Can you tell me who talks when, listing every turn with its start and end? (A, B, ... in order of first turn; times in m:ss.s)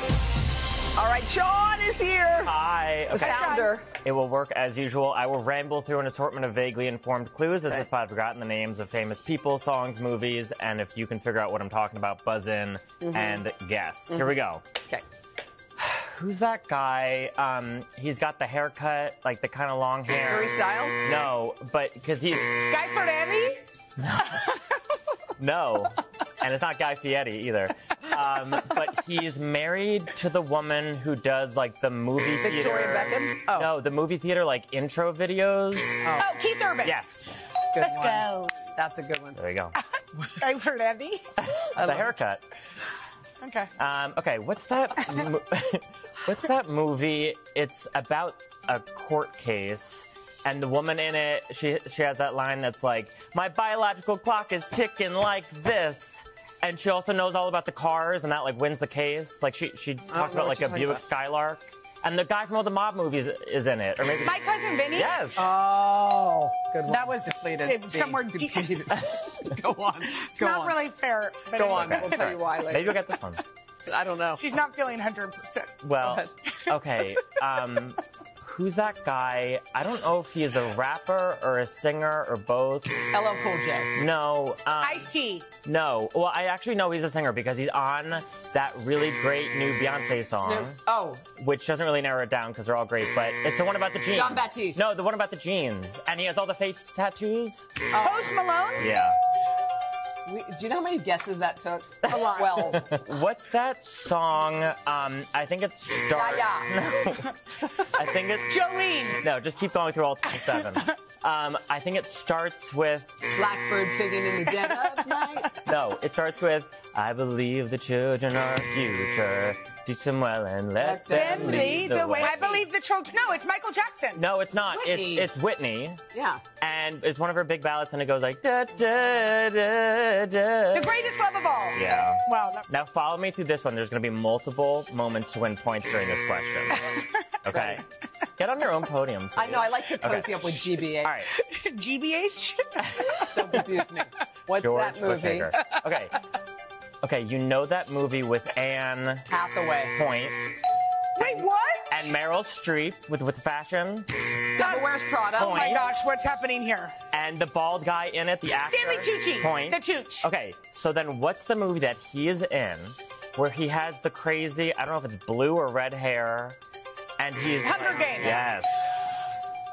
0:01.0-0:02.6 A
0:02.4-0:14.6 B
0:03.1-0:03.8 A
0:03.2-0:03.7 C
0:13.0-0:13.4 A
0:15.8-0:22.7 B
0:20.2-0:21.1 A
0:22.6-0:23.6 C
0:24.0-0:24.5 B
0:25.4-0:36.1 B
0:32.4-0:33.7 A
0:36.0-0:36.3 A
0:36.2-0:37.0 C
0:36.8-0:37.4 B
0:37.7-0:39.4 A
0:37.8-0:38.6 C
0:39.4-0:39.7 B
0:39.8-0:41.2 C
0:41.4-0:42.4 B
0:41.7-0:42.1 A
0:43.4-0:43.7 C
0:43.8-1:05.5 B
1:00.1-1:01.0 A
1:04.2-1:05.2 C
1:05.4-1:10.8 A
1:06.8-1:09.0 C
1:10.1-1:12.3 C
1:11.5-1:13.1 A
1:11.7-1:13.4 B
1:13.8-1:14.4 A
1:14.4-1:15.8 C
1:15.8-1:23.0 B
1:16.0-1:16.3 A
1:23.0-1:24.0 A
1:23.9-1:25.1 B
1:24.8-1:25.5 C
1:25.6-1:30.8 B
1:30.4-1:31.2 A
1:31.4-1:37.7 B
1:34.1-1:34.8 A
1:37.9-1:38.3 A
1:37.9-1:38.9 C
1:38.8-1:39.2 B
1:40.2-1:42.9 A
1:42.0-1:48.5 B
1:46.1-1:46.7 A
1:48.5-1:49.2 C
1:49.1-1:53.2 B
1:50.3-1:50.9 C
1:53.3-1:55.6 A
1:54.6-1:55.2 C
1:55.6-2:02.6 B
2:00.8-2:02.6 A
2:01.1-2:04.2 C
2:04.1-2:06.0 B
2:04.6-2:05.3 A
2:06.1-2:06.4 A
2:06.6-2:10.9 B
2:10.7-2:12.6 C
2:11.7-2:16.9 B
2:17.4-2:17.8 B
2:17.5-2:17.8 A
2:18.4-2:21.3 B
2:19.4-2:21.2 A
2:21.3-2:23.7 C
2:23.2-2:25.6 A
2:24.6-2:26.2 B
2:27.0-2:29.3 B
2:29.3-2:30.0 A
2:29.9-2:30.4 B
2:31.2-2:32.1 C
2:31.9-2:34.1 B
2:34.5-2:35.8 A
2:34.6-2:36.9 C
2:35.3-2:35.8 B
2:37.1-2:46.6 B
2:38.6-2:40.3 C
2:47.2-2:49.4 B
2:47.6-2:48.4 C